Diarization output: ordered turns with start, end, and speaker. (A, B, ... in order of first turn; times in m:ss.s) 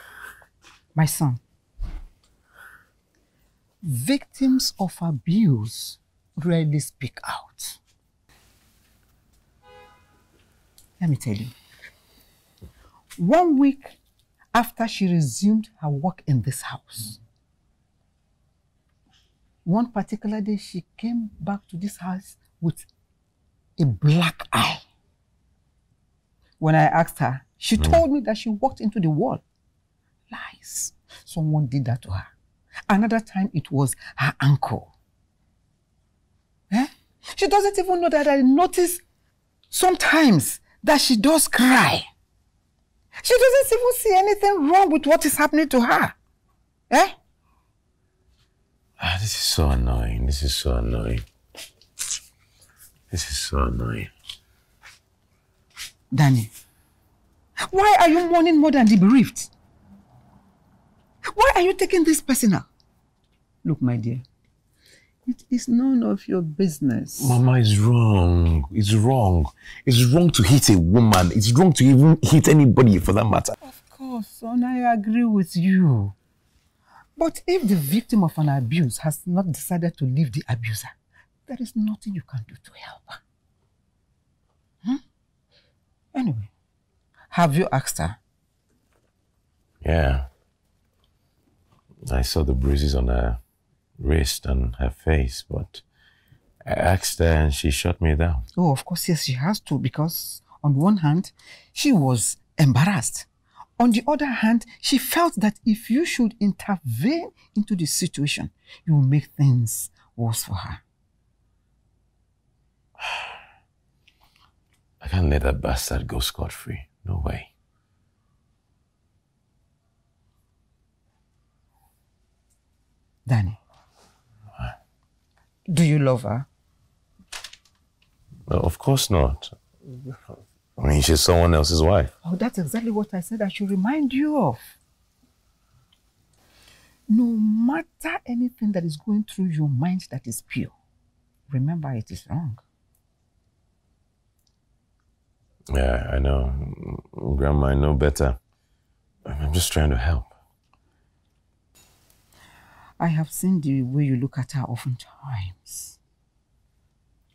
0:00.9-0:01.4 A
0:03.8-0:07.8 A
0:11.0-0:11.5 A
0:13.2-0:14.0 A
0:14.5-0:17.2 A
0:19.6-0:22.9 A
0:23.8-0:24.8 A
0:26.6-0:29.4 A
0:30.3-0:32.3 A
0:32.9-0:34.9 A
0:36.7-0:39.0 A
0:39.7-0:42.1 A
0:43.2-0:46.2 A
0:46.9-0:47.2 A
0:49.0-0:51.2 B
0:53.1-0:54.1 B
0:56.1-0:56.5 A
0:57.6-0:59.5 A
1:01.2-1:02.7 A
1:03.6-1:04.2 A
1:05.2-1:07.4 A
1:07.2-1:13.6 B
1:13.6-1:16.1 A
1:17.2-1:20.9 A
1:21.5-1:23.2 A
1:26.1-1:26.5 A
1:27.3-1:28.2 A
1:29.8-1:30.3 B
1:32.0-1:33.4 B
1:34.0-1:35.8 B
1:36.6-1:38.4 B
1:38.5-1:43.3 A
1:43.8-1:50.8 A
1:55.0-1:57.5 B
2:03.2-2:03.6 A
2:05.7-2:06.5 A
2:08.5-2:10.1 B
2:10.8-2:12.1 B
2:12.2-2:14.8 A
2:17.1-2:20.7 A
2:21.5-2:22.6 A
2:25.7-2:28.4 B
2:29.2-2:30.3 B
2:33.0-2:36.0 A